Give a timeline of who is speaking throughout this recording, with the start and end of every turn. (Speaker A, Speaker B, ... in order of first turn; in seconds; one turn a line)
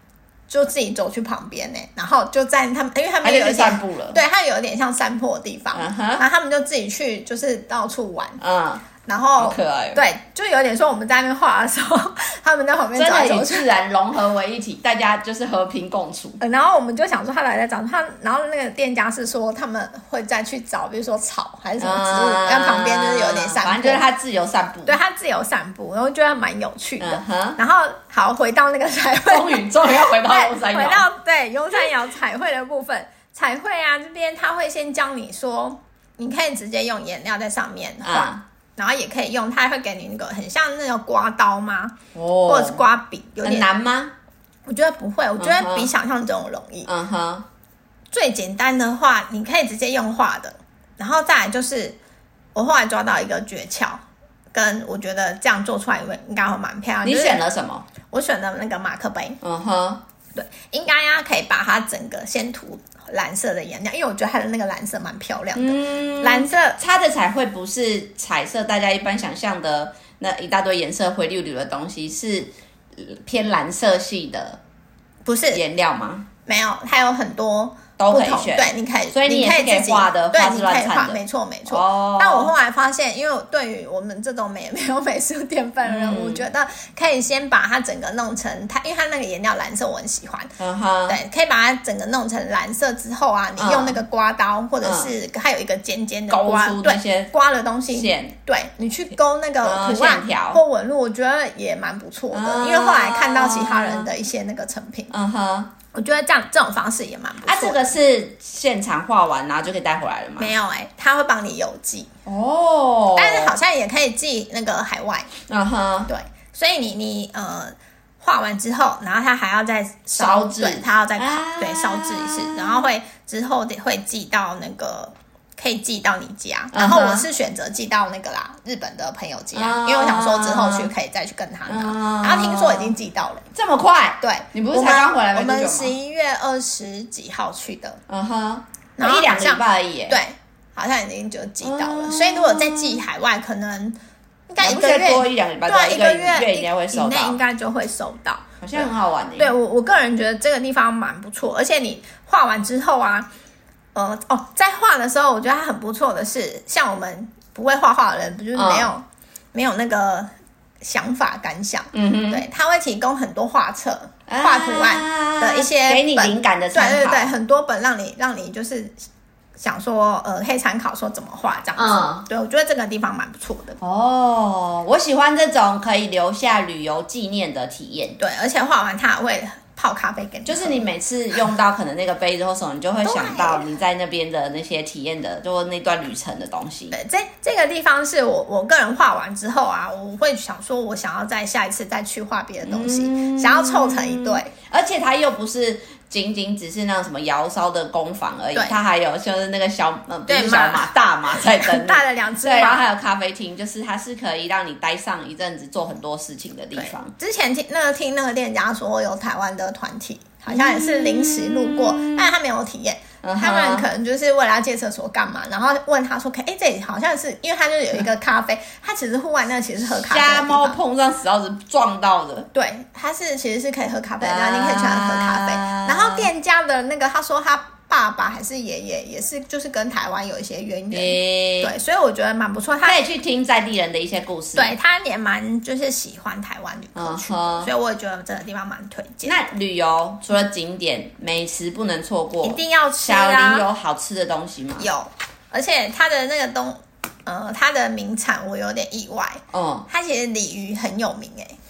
Speaker A: 0.5-8.4
Speaker B: 3.2-4.2
Speaker B: 5.7-6.2
Speaker B: 8.4-8.8
Speaker A: 9.0-13.7
Speaker B: 9.4-10.0
Speaker B: 12.9-16.4
Speaker A: 16.4-24.0
Speaker B: 21.8-24.9
Speaker A: 24.9-43.7
Speaker B: 27.0-27.6
Speaker B: 29.2-31.1
Speaker B: 38.0-38.4
Speaker B: 42.1-42.8
Speaker B: 43.4-44.1
Speaker A: 44.7-46.9
Speaker B: 45.4-45.9
Speaker B: 46.8-47.5
Speaker A: 48.1-52.0
Speaker A: 52.5-57.4
Speaker B: 57.0-57.9
Speaker A: 58.1-59.4
Speaker B: 59.4-60.0
Speaker A: 60.3-66.8
Speaker B: 65.5-74.6
Speaker A: 75.2-75.6
Speaker B: 75.5-76.2
Speaker A: 76.5-90.5
Speaker B: 78.0-82.5
Speaker B: 85.8-86.4
Speaker B: 90.6-91.2
Speaker A: 91.1-105.1
Speaker B: 93.6-94.0
Speaker B: 94.8-95.1
Speaker B: 96.3-97.3
Speaker B: 97.9-98.3
Speaker B: 99.6-100.6
Speaker B: 102.3-104.1
Speaker B: 105.1-105.7
Speaker A: 105.9-107.9
Speaker B: 107.4-110.5
Speaker A: 110.4-112.1
Speaker B: 112.2-113.5
Speaker A: 113.2-115.3
Speaker B: 115.5-116.1
Speaker A: 116.1-133.4
Speaker B: 120.2-122.9
Speaker B: 126.7-127.3
Speaker B: 129.5-130.9
Speaker B: 131.7-132.9
Speaker B: 133.5-135.9
Speaker A: 134.2-138.0
Speaker B: 138.1-140.2
Speaker A: 139.0-144.0
Speaker B: 141.6-143.0
Speaker A: 144.5-153.3
Speaker B: 144.6-147.4
Speaker B: 148.6-149.5
Speaker A: 153.9-169.0
Speaker B: 158.5-158.9
Speaker B: 161.9-162.4
Speaker B: 164.3-167.3
Speaker A: 169.6-173.8
Speaker B: 171.8-172.2
Speaker B: 173.8-178.2
Speaker A: 178.2-180.8
Speaker B: 180.4-186.9
Speaker A: 183.0-183.7
Speaker A: 186.9-194.5
Speaker B: 192.6-207.1
Speaker A: 200.3-202.8
Speaker A: 206.8-220.8
Speaker B: 210.5-212.3
Speaker B: 213.2-213.9
Speaker B: 219.9-222.5
Speaker A: 222.5-233.0
Speaker B: 224.2-226.3
Speaker B: 230.9-231.7
Speaker B: 232.8-234.7
Speaker A: 234.5-239.4
Speaker B: 236.9-237.7
Speaker B: 239.2-244.9
Speaker A: 242.4-243.7
Speaker A: 244.8-251.6
Speaker B: 249.5-249.9